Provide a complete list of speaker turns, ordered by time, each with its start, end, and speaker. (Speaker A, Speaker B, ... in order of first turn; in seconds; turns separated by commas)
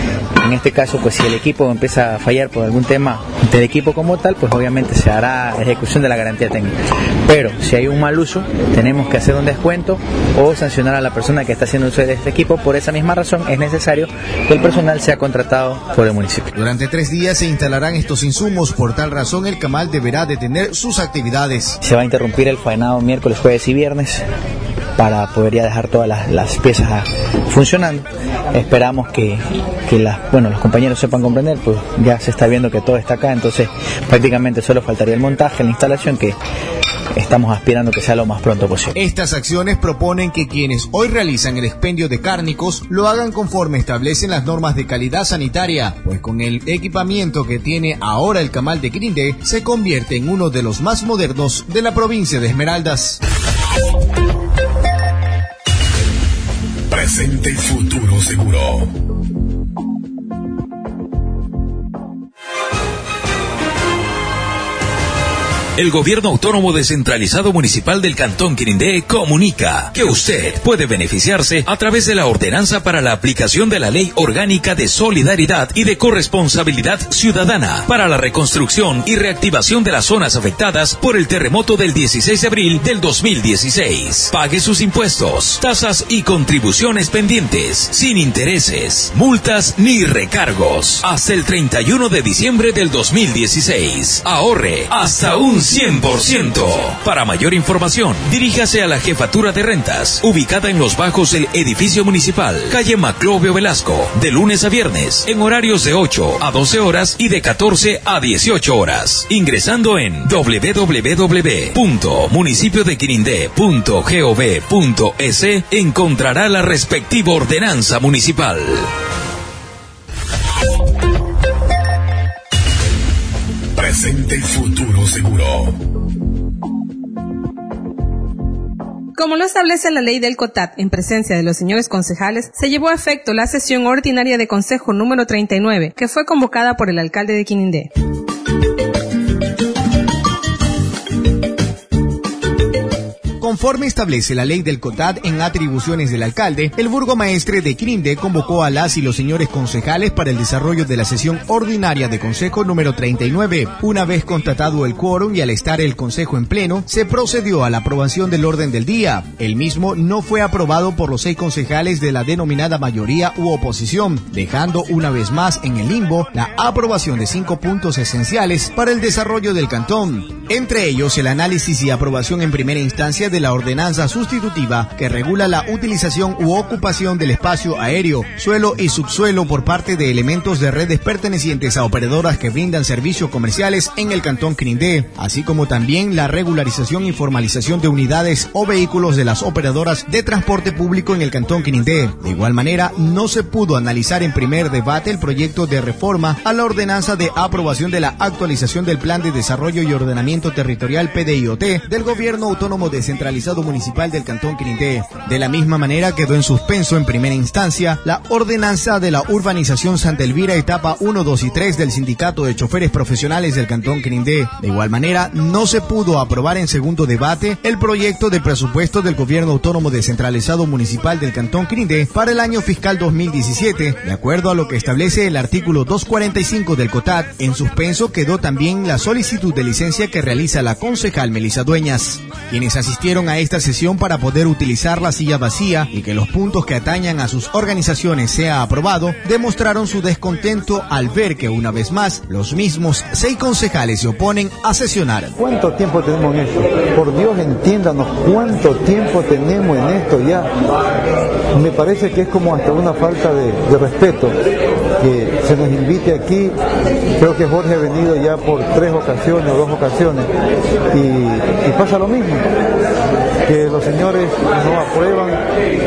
Speaker A: 0.4-6.7, Speaker A: 7.3-16.5, Speaker B: 16.5-21.8, Speaker A: 21.8-24.2, Speaker A: 25.0-36.4, Speaker A: 37.1-38.9, Speaker B: 38.9-53.2, Speaker C: 56.9-58.9, Speaker D: 65.8-118.9, Speaker C: 123.8-125.7, Speaker E: 129.2-137.9, Speaker B: 143.4-245.4, Speaker F: 245.3-250.5, Speaker F: 251.5-254.4, Speaker F: 255.0-256.5, Speaker F: 257.2-260.3, Speaker F: 260.9-262.5, Speaker F: 263.4-265.4